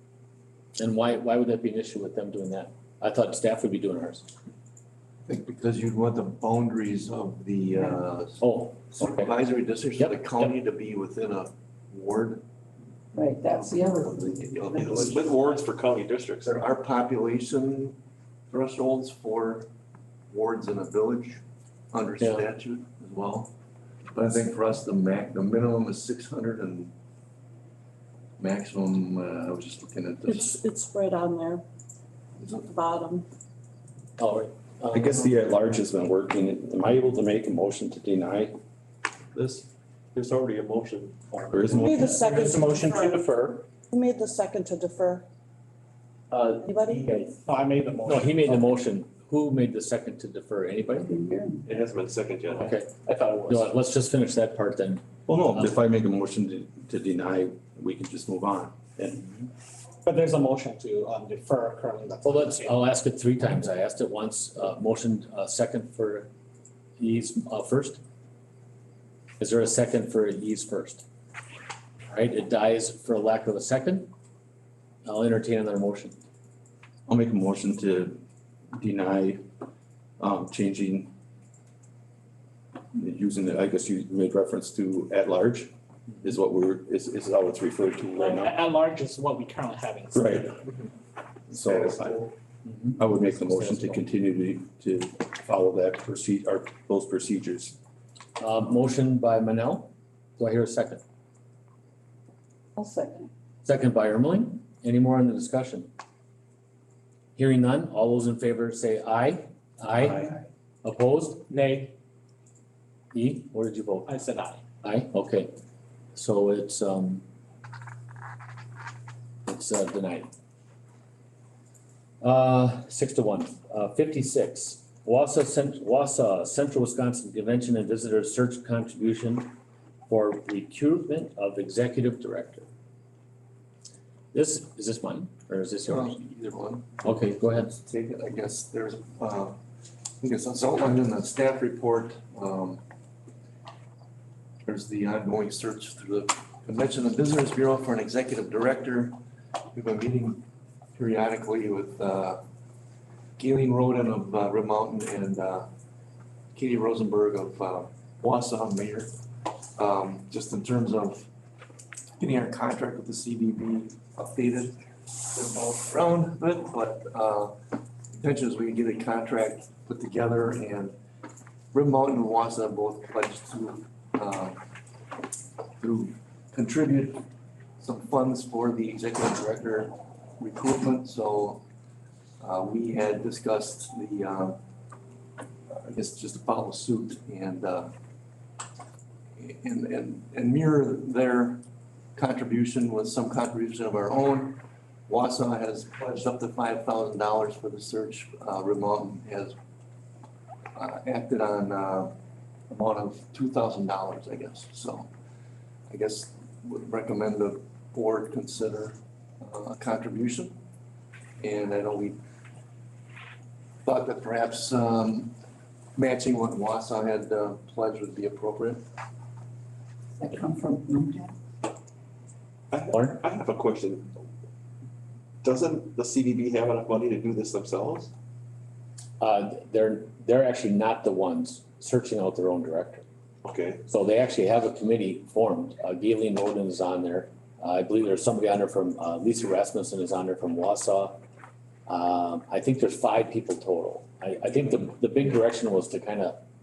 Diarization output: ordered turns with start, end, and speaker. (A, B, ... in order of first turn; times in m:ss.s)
0:00.8-0:04.2 A
0:05.3-0:12.4 B
0:08.4-0:09.3 A
0:10.0-0:10.5 A
0:13.2-0:14.3 C
0:13.2-0:15.5 B
0:14.8-0:16.5 D
0:16.4-0:18.0 B
0:18.5-0:19.7 B
0:20.3-0:23.5 B
0:24.1-0:26.9 B
0:28.4-0:30.6 B
0:30.2-0:31.6 E
0:32.4-0:32.7 B
0:32.7-0:33.3 E
0:34.2-0:35.2 A
0:34.9-0:38.6 F
0:39.4-0:39.6 D
0:40.1-0:41.8 D
0:41.5-0:42.0 F
0:41.7-0:43.2 E
0:42.0-0:43.7 G
0:43.9-0:45.2 E
0:46.3-0:47.3 G
0:46.6-0:47.0 E
0:47.4-0:48.7 H
0:48.0-0:51.2 A
0:51.2-0:51.6 C
0:51.6-0:52.7 D
0:52.5-0:52.9 A
0:52.5-0:53.7 G
0:53.4-0:55.0 A
0:55.3-0:59.2 F
1:00.0-1:02.8 H
1:02.2-1:06.3 A
1:07.0-1:08.0 A
1:09.4-1:11.0 A
1:12.1-1:14.1 A
1:15.0-1:16.2 A
1:17.1-1:18.2 F
1:18.7-1:19.4 F
1:20.2-1:21.1 F
1:22.9-1:25.7 F
1:26.2-1:28.6 F
1:28.2-1:30.6 H
1:30.1-1:30.6 F
1:31.5-1:32.2 F
1:31.6-1:32.2 D
1:32.7-1:34.0 A
1:33.0-1:37.8 F
1:38.4-1:41.0 A
1:42.8-1:43.3 C
1:43.6-1:45.9 A
1:47.4-1:51.4 A
1:51.5-1:51.9 G
1:53.1-1:54.1 A
1:54.0-1:54.6 H
1:54.8-1:55.5 A
1:56.1-1:57.2 A
1:59.5-2:00.3 A
2:02.2-2:09.5 A
2:10.1-2:12.7 A
2:14.3-2:16.2 A
2:15.9-2:16.9 B
2:17.0-2:17.8 A
2:17.7-2:19.6 B
2:20.2-2:22.8 B
2:24.6-2:29.1 B
2:29.7-2:30.4 B
2:31.0-2:32.4 B
2:33.4-2:35.7 B
2:36.5-2:39.1 B
2:39.8-2:41.3 B
2:42.2-2:44.8 B
2:45.3-2:47.5 B
2:48.2-2:51.0 B
2:51.7-2:54.6 B
2:55.8-2:57.2 B
2:57.8-3:01.6 B
3:02.4-3:04.6 B
3:05.7-3:07.9 B
3:09.4-3:11.6 B
3:12.2-3:19.6 B
3:20.8-3:22.1 B
3:22.7-3:25.1 B
3:25.9-3:30.6 B
3:31.4-3:32.2 B
3:33.8-3:35.3 B
3:36.0-3:38.8 B
3:40.2-3:41.3 C
3:42.7-3:44.1 D
3:42.9-3:43.2 A
3:45.4-3:48.1 D
3:49.2-3:53.0 A
3:53.4-3:53.8 D
3:53.9-4:01.2 A
4:01.9-4:06.4 A